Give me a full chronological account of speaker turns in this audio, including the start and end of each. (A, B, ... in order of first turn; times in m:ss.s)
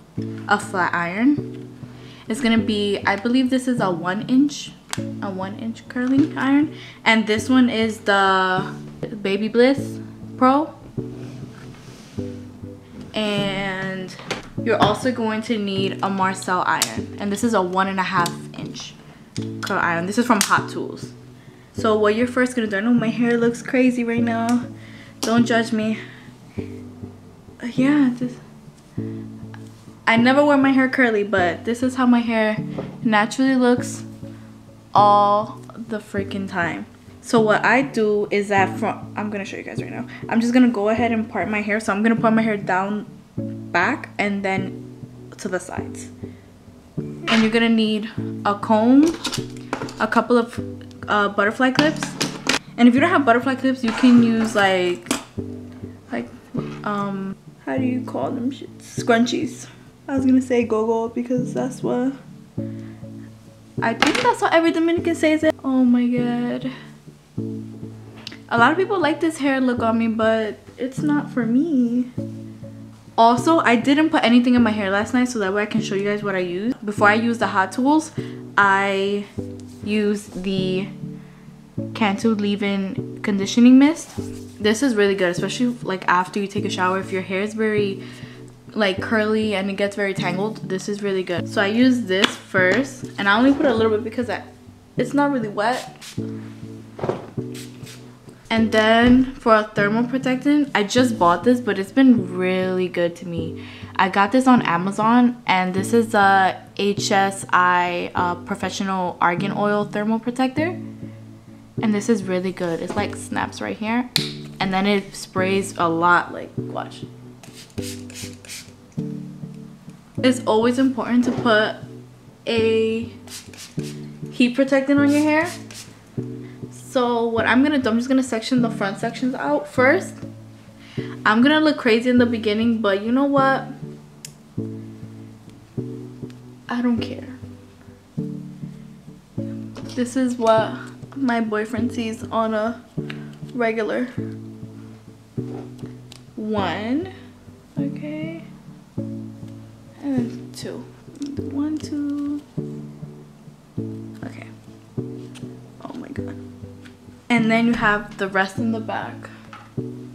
0:00.5-0:01.6 A
0:02.3-0:10.8 A
0:13.1-0:19.0 A
0:19.6-0:21.1 A
0:21.7-0:24.7 A
0:25.2-0:26.0 A
0:27.6-0:28.4 A
0:30.0-0:34.0 A
0:34.9-0:43.1 A
0:43.6-0:46.1 A
0:47.2-0:49.3 A
0:50.0-0:52.2 A
0:52.8-0:55.1 A
0:56.1-1:02.2 A
1:03.8-1:06.7 A
1:08.5-1:12.1 A
1:13.2-1:19.3 A
1:19.8-1:20.9 A
1:21.9-1:28.0 A
1:28.7-1:35.9 A
1:38.5-1:50.8 A
1:51.8-1:57.1 A
2:00.2-2:01.8 A
2:02.4-2:03.2 A
2:04.3-2:05.5 A
2:06.7-2:10.2 A
2:11.2-2:13.7 A
2:16.7-2:17.4 A
2:19.9-2:22.8 A
2:23.5-2:24.1 A
2:26.3-2:27.1 A
2:27.8-2:28.5 A
2:30.0-2:32.4 A
2:34.2-2:34.5 A
2:35.8-2:36.4 A
2:37.3-2:39.3 A